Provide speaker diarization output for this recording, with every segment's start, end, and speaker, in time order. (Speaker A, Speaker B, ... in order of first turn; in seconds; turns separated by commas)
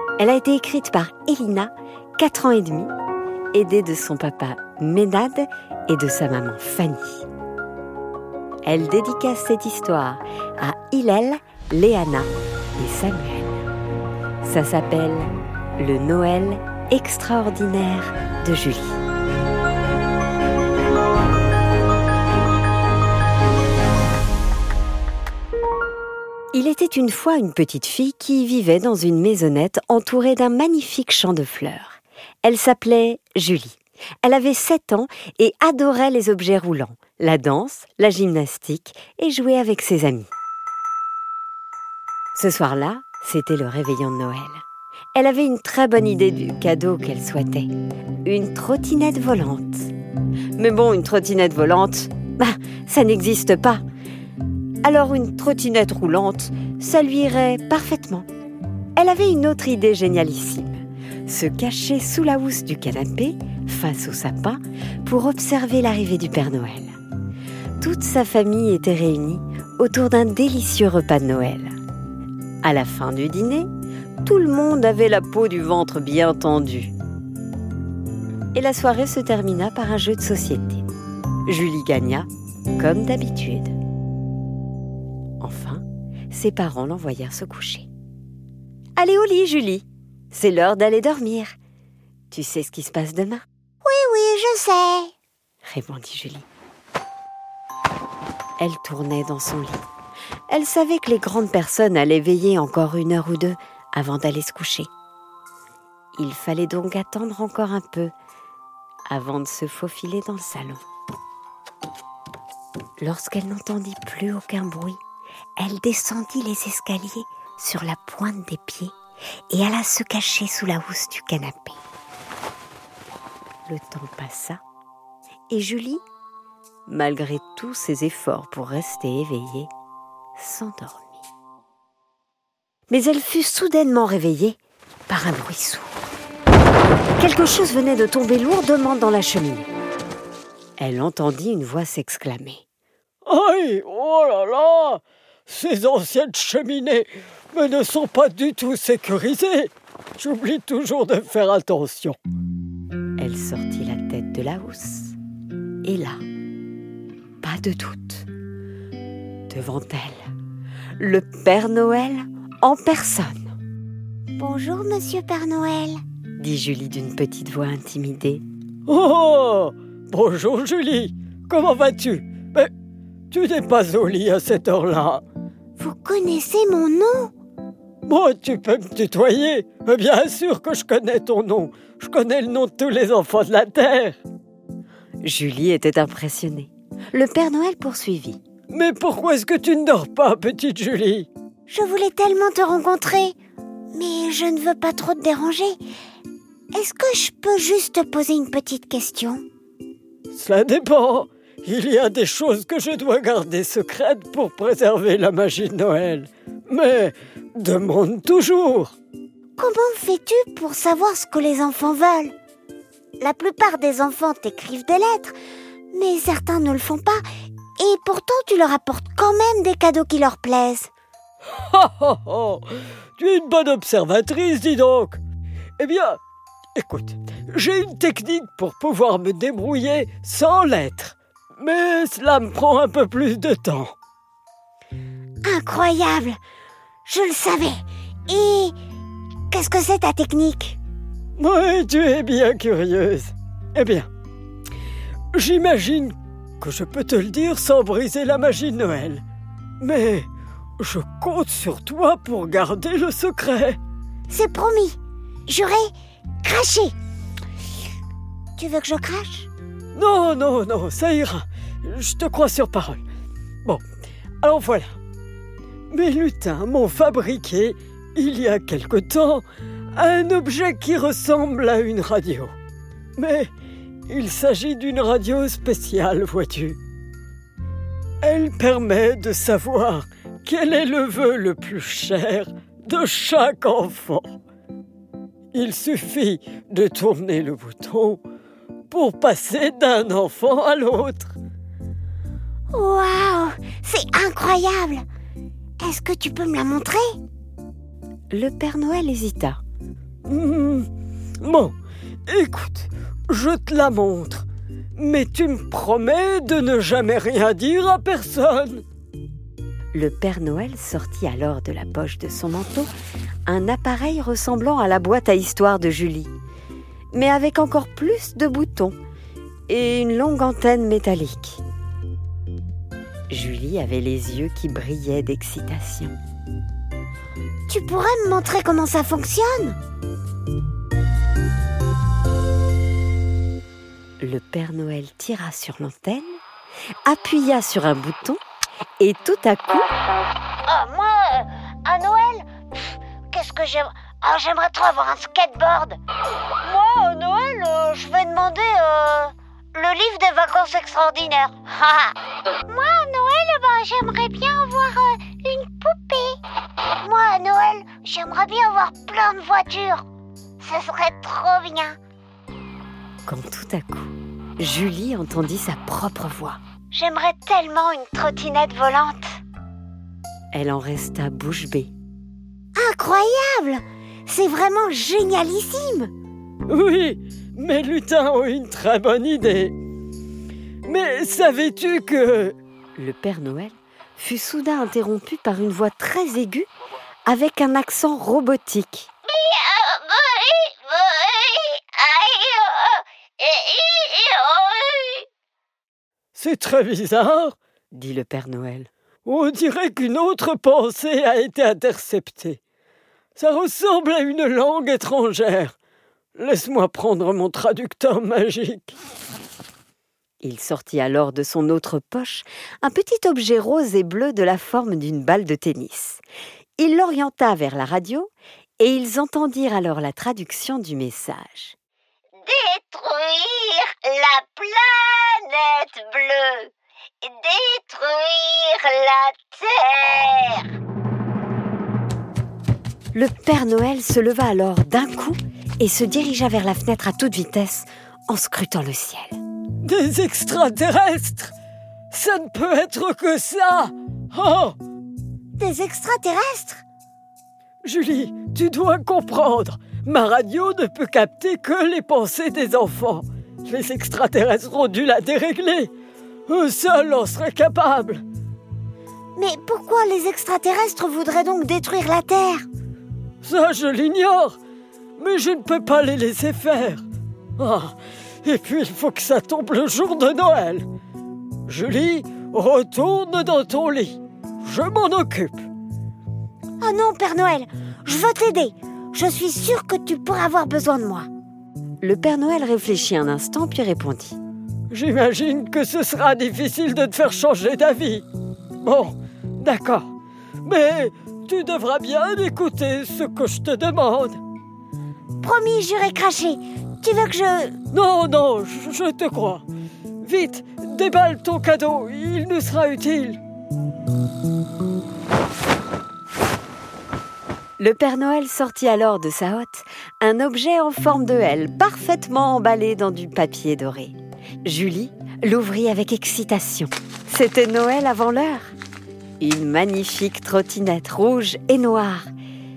Speaker A: 0.2-2.9, Speaker A: 3.5-7.2, Speaker A: 8.6-13.6, Speaker A: 14.4-19.0, Speaker A: 26.5-40.3, Speaker A: 42.4-44.6, Speaker A: 45.1-47.7, Speaker A: 48.2-49.9, Speaker A: 50.6-53.8, Speaker A: 54.8-58.3, Speaker A: 59.0-66.9, Speaker A: 67.8-71.7, Speaker A: 72.6-73.7, Speaker A: 74.2-76.9, Speaker A: 78.5-80.9, Speaker A: 81.5-83.8, Speaker A: 85.4-87.9, Speaker A: 89.0-91.5, Speaker A: 92.3-93.4, Speaker B: 93.8-95.1, Speaker A: 95.6-96.5, Speaker A: 98.6-99.8, Speaker A: 100.5-104.9, Speaker A: 106.2-108.1, Speaker A: 109.1-110.8, Speaker A: 113.0-115.0, Speaker A: 115.6-118.9, Speaker A: 119.5-121.8, Speaker A: 123.7-124.6, Speaker A: 125.5-126.0, Speaker A: 126.9-129.7, Speaker A: 130.4-131.2, Speaker A: 132.9-134.6, Speaker A: 135.1-135.9, Speaker A: 137.2-139.7, Speaker A: 140.8-142.6, Speaker C: 143.2-152.2, Speaker A: 153.2-155.2, Speaker A: 155.8-156.2, Speaker A: 157.4-158.3, Speaker A: 159.5-160.3, Speaker A: 161.0-163.6, Speaker B: 164.4-166.0, Speaker A: 166.4-168.4, Speaker C: 168.9-172.7, Speaker C: 173.3-175.2, Speaker B: 175.8-177.3, Speaker C: 178.1-184.2, Speaker A: 185.2-188.4, Speaker C: 188.7-191.3, Speaker C: 200.3-208.9, Speaker B: 209.6-212.3, Speaker B: 213.2-215.3, Speaker B: 215.9-217.2, Speaker B: 217.8-220.9, Speaker C: 221.5-225.2, Speaker C: 225.8-226.2, Speaker C: 226.8-233.9, Speaker B: 235.5-236.4, Speaker B: 237.1-238.7, Speaker B: 239.5-240.8, Speaker C: 241.4-244.1, Speaker C: 245.3-249.2, Speaker C: 249.8-250.3, Speaker C: 250.8-253.8, Speaker B: 254.3-255.0, Speaker B: 255.5-255.9, Speaker B: 256.4-256.9, Speaker B: 258.6-259.5, Speaker C: 259.9-263.0, Speaker C: 264.4-264.9, Speaker C: 265.9-272.5, Speaker C: 273.2-273.5, Speaker C: 274.1-276.8, Speaker C: 278.2-284.3, Speaker C: 285.5-288.2, Speaker C: 288.9-291.3, Speaker B: 292.7-295.0, Speaker B: 295.8-297.2, Speaker A: 298.3-299.6, Speaker C: 300.2-300.9, Speaker C: 301.4-301.7, Speaker C: 302.3-308.8, Speaker A: 309.9-312.9, Speaker A: 313.5-316.3, Speaker A: 317.1-318.9, Speaker A: 319.7-321.6, Speaker A: 323.3-326.1, Speaker B: 327.7-329.8, Speaker A: 334.2-336.4, Speaker A: 337.0-338.4, Speaker A: 339.0-339.9, Speaker B: 340.6-346.0, Speaker B: 346.6-356.4, Speaker B: 357.0-360.0, Speaker B: 360.6-362.0, Speaker A: 363.2-366.6, Speaker B: 366.9-369.3, Speaker A: 370.5-371.9, Speaker B: 372.8-376.1, Speaker C: 376.7-379.7, Speaker C: 380.8-382.6, Speaker A: 383.0-386.7, Speaker A: 387.3-389.1, Speaker B: 389.3-395.2, Speaker C: 396.3-397.6, Speaker A: 397.9-398.9, Speaker C: 399.2-402.6, Speaker C: 403.4-405.8, Speaker C: 406.4-408.9, Speaker A: 410.4-416.2, Speaker A: 416.8-421.8, Speaker B: 422.4-426.7, Speaker B: 427.2-430.7, Speaker A: 433.1-439.4, Speaker C: 439.8-441.5, Speaker C: 442.1-444.7, Speaker B: 445.6-446.8, Speaker C: 447.8-455.9, Speaker C: 456.5-458.2, Speaker B: 459.4-462.7, Speaker C: 463.4-464.6, Speaker C: 465.2-467.0, Speaker C: 467.6-470.9, Speaker C: 471.7-475.7, Speaker B: 476.8-481.3, Speaker A: 482.0-484.4, Speaker C: 484.9-488.2, Speaker C: 488.8-490.1, Speaker C: 490.6-494.4, Speaker B: 495.4-497.8, Speaker C: 497.9-499.6, Speaker C: 500.2-503.4, Speaker A: 507.8-518.7, Speaker A: 519.4-522.3